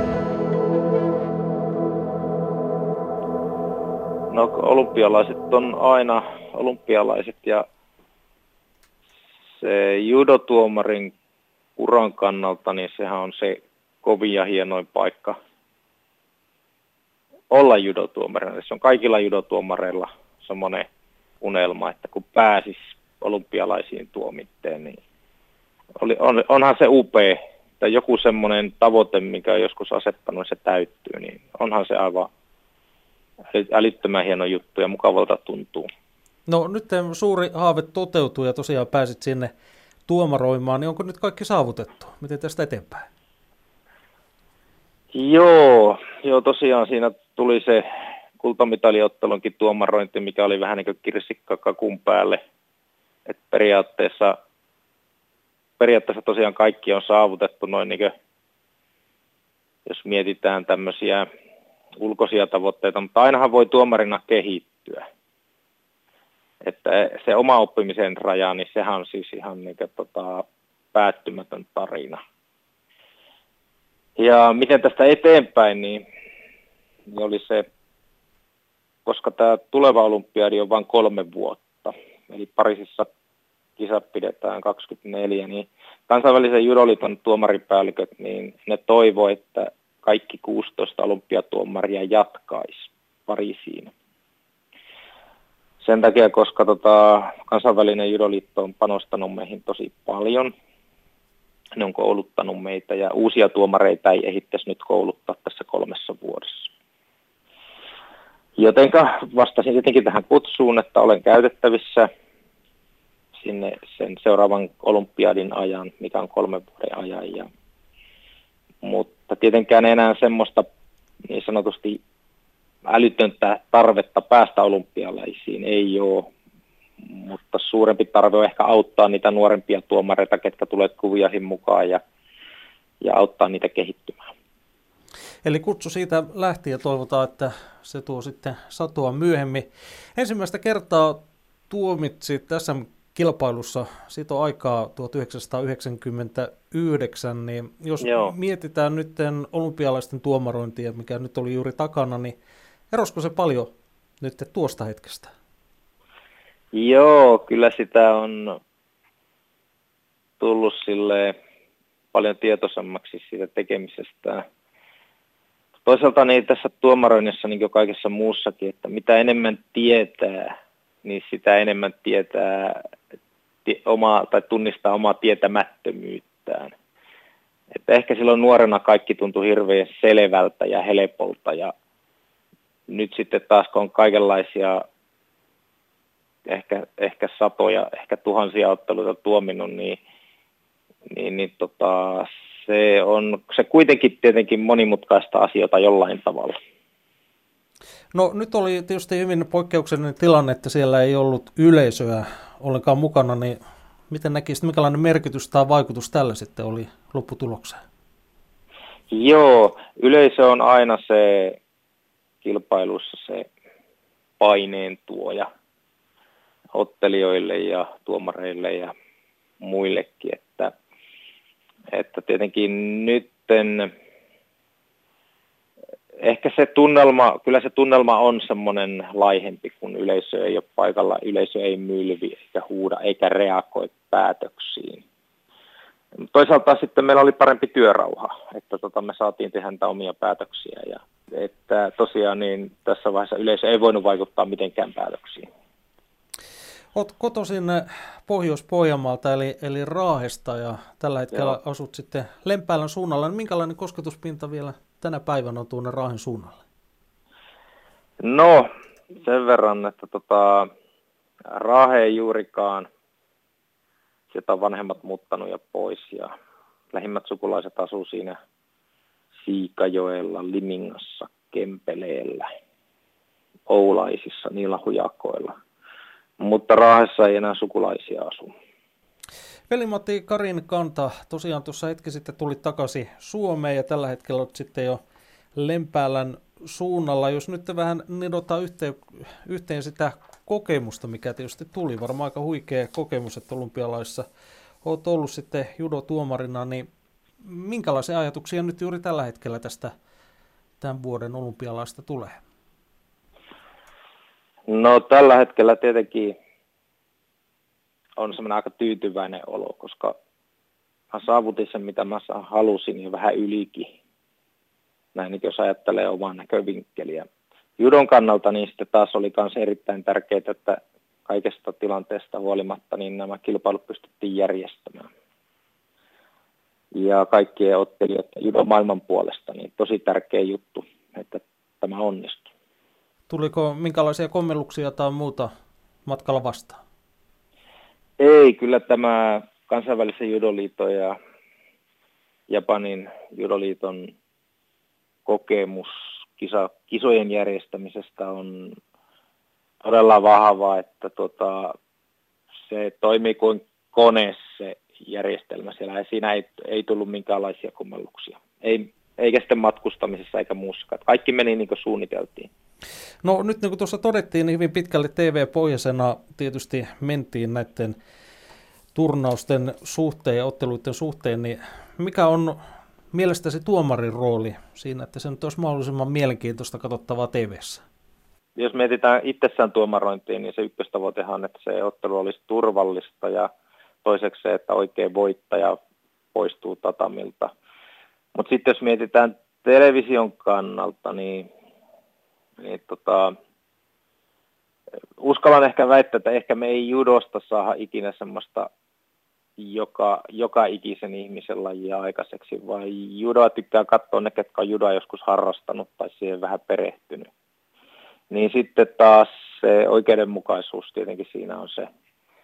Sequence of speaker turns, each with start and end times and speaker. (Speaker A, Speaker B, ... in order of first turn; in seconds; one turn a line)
Speaker A: 4.3-7.6
Speaker A: 9.6-11.1
Speaker A: 11.8-15.4
Speaker A: 17.5-20.9
Speaker A: 21.4-25.0
Speaker A: 25.9-32.3
Speaker A: 33.5-35.9
Speaker B: 36.5-39.5
Speaker B: 40.1-43.0
Speaker A: 45.1-47.8
Speaker A: 48.4-52.4
Speaker A: 53.3-54.4
Speaker A: 55.8-58.1
Speaker A: 59.9-61.3
Speaker A: 62.0-65.1
Speaker A: 66.6-72.2
Speaker A: 74.2-76.0
Speaker A: 77.1-77.7
Speaker A: 79.0-83.1
Speaker A: 83.8-93.9
Speaker A: 95.8-100.5
Speaker A: 101.8-106.7
Speaker A: 108.6-112.1
Speaker A: 113.4-117.5
Speaker A: 118.8-120.7
Speaker A: 121.3-122.0
Speaker A: 122.8-126.3
Speaker A: 127.0-132.0
Speaker A: 133.0-134.3
Speaker B: 135.4-152.3
Speaker A: 148.0-148.3
Speaker B: 152.9-155.3
Speaker A: 156.7-158.6
Speaker A: 160.4-161.4
Speaker A: 162.1-164.4
Speaker A: 165.8-172.9
Speaker A: 173.6-176.7
Speaker A: 177.7-181.7
Speaker A: 182.9-184.8
Speaker A: 186.5-190.0
Speaker A: 191.1-196.6
Speaker B: 198.1-203.6
Speaker B: 204.1-207.8
Speaker A: 209.1-211.6
Speaker A: 212.4-213.5
Speaker A: 214.4-215.5
Speaker A: 216.7-218.9
Speaker A: 219.6-220.7
Speaker A: 221.9-223.9
Speaker A: 226.2-235.0
Speaker A: 236.2-245.5
Speaker B: 246.9-256.6
Speaker A: 251.3-251.6
Speaker A: 258.2-260.7
Speaker A: 261.5-262.9
Speaker A: 264.3-266.3
Speaker A: 266.9-268.4
Speaker A: 269.4-272.4
Speaker A: 273.7-275.5
Speaker A: 276.4-278.5
Speaker B: 279.7-285.0
Speaker B: 285.5-294.2
Speaker B: 294.8-296.9
Speaker B: 297.4-299.9
Speaker B: 300.8-302.4
Speaker A: 304.7-306.3
Speaker A: 308.2-310.1
Speaker A: 311.1-313.9
Speaker A: 315.1-317.3
Speaker A: 317.8-325.1
Speaker A: 326.9-332.5
Speaker B: 333.3-335.5
Speaker B: 336.1-336.8
Speaker A: 338.2-341.2
Speaker A: 342.5-344.1
Speaker A: 345.2-348.8
Speaker A: 349.8-351.7
Speaker A: 352.6-362.5
Speaker B: 363.2-368.0
Speaker B: 368.9-372.6
Speaker B: 373.1-377.8
Speaker A: 378.6-383.5
Speaker A: 384.0-385.8
Speaker A: 386.3-387.5
Speaker A: 388.3-391.5
Speaker A: 392.6-393.3
Speaker A: 395.2-398.7
Speaker A: 399.6-407.3
Speaker A: 408.3-411.9